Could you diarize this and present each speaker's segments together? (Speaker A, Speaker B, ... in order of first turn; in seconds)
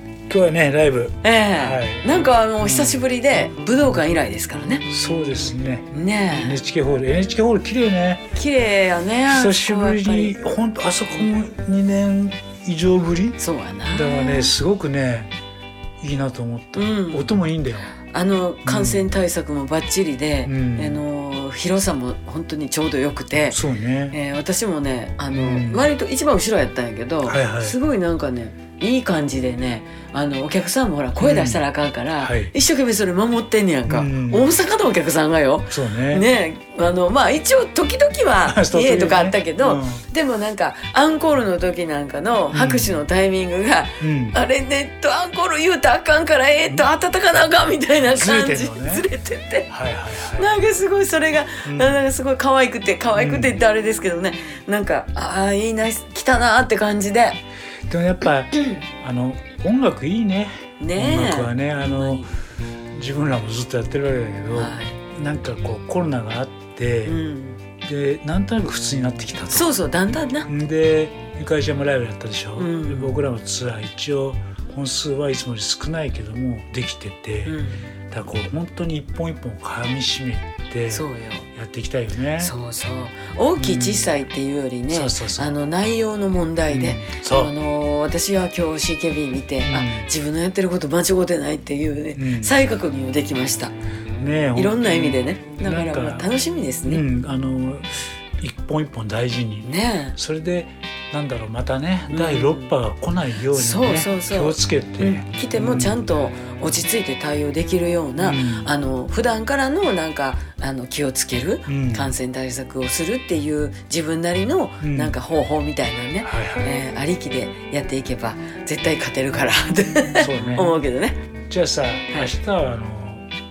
Speaker A: 0.3-2.1, 2.6-3.0, 4.9-8.3, 9.3-15.3, 16.0-17.9, 18.6-19.1, 20.4-21.0, 23.5-24.2, 25.3-25.9, 27.3-27.8, 31.2-31.6, 32.2-32.5, 33.9-34.6, 35.7-36.3, 38.5-40.0, 42.5-43.0, 44.0-44.4, 48.1-49.1, 49.7-50.5, 51.6-52.0, 53.1-53.6, 57.9-62.3, 62.9-67.2, 67.8-69.7, 70.5-77.6, 78.1-82.5, 83.6-84.1, 84.9-85.5, 86.7-87.5, 89.7-90.1, 92.2-92.6, 94.2-96.3, 96.9-97.9, 98.4-106.0, 108.2-108.7, 111.7-112.1, 114.8-115.2, 116.2-116.7, 120.1-120.8, 121.5-123.3
Speaker B: 1.2-4.9, 5.9-6.6, 8.3-10.4, 13.4-14.5, 16.7-17.3, 18.1-23.6, 24.1-49.7, 50.4-57.4, 60.8-62.3, 64.5-65.0, 67.1-67.6, 69.5-70.5, 72.6-73.2, 77.5-77.9, 80.9-81.5, 82.4-93.7, 94.6-97.0, 99.7-100.2, 102.1-102.7, 103.5-121.2